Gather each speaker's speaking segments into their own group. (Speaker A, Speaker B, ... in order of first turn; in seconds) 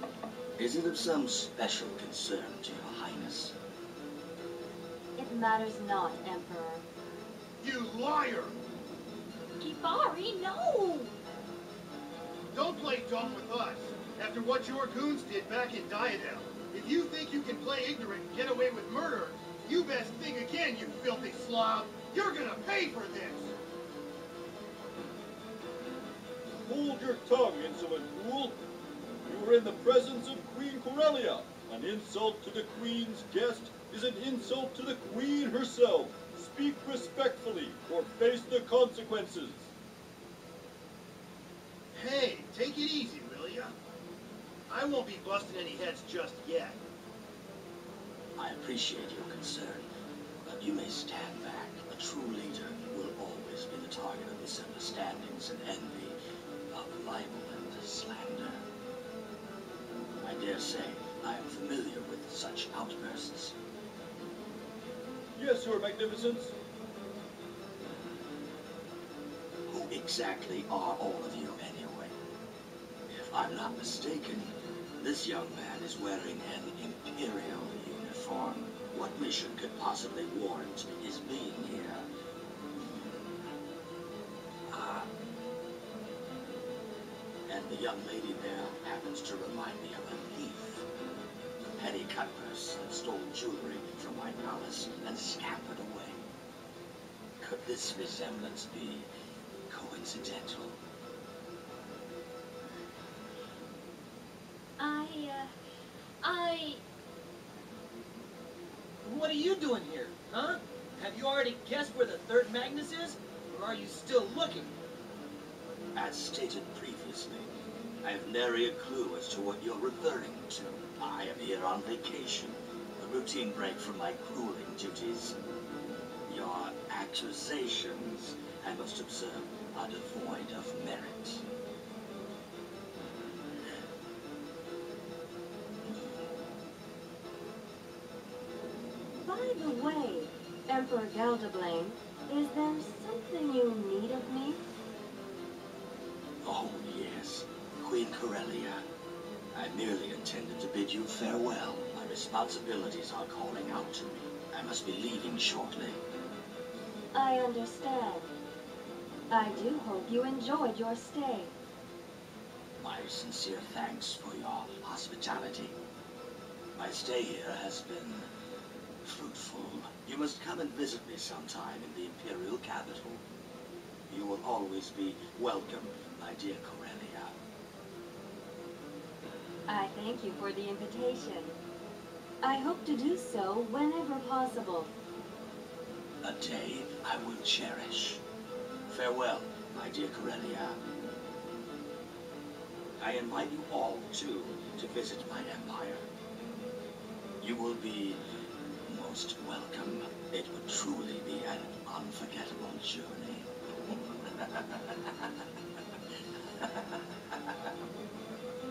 Speaker A: 0.6-3.5, 48.4-49.9, 50.4-56.1, 56.7-58.6, 60.2-63.5, 69.7-72.1, 73.1-82.0, 82.7-83.3, 84.7-85.1, 87.5-90.8, 91.8-96.2, 97.4-99.1, 99.7-100.8, 115.9-117.5, 118.0-125.3, 126.2-131.4, 133.5-133.8, 135.8-136.3, 146.4-148.8, 149.5-156.0, 162.8-165.8, 166.7-168.3, 169.0-173.2, 174.1-177.3, 186.2-188.2, 188.9-190.8, 193.0-196.0, 197.4-198.2, 198.8-205.4, 206.6-207.7
Speaker B: 5.2-6.8, 139.2-144.6, 157.1-158.3, 159.3-161.5, 179.7-181.6, 182.4-184.9
Speaker C: 7.6-8.6, 12.5-23.5, 41.9-43.7, 44.7-46.8
Speaker D: 9.6-11.2, 104.8-105.5, 106.2-106.8
Speaker E: 26.6-28.6, 29.2-39.7, 65.3-66.5
Speaker F: 109.0-114.7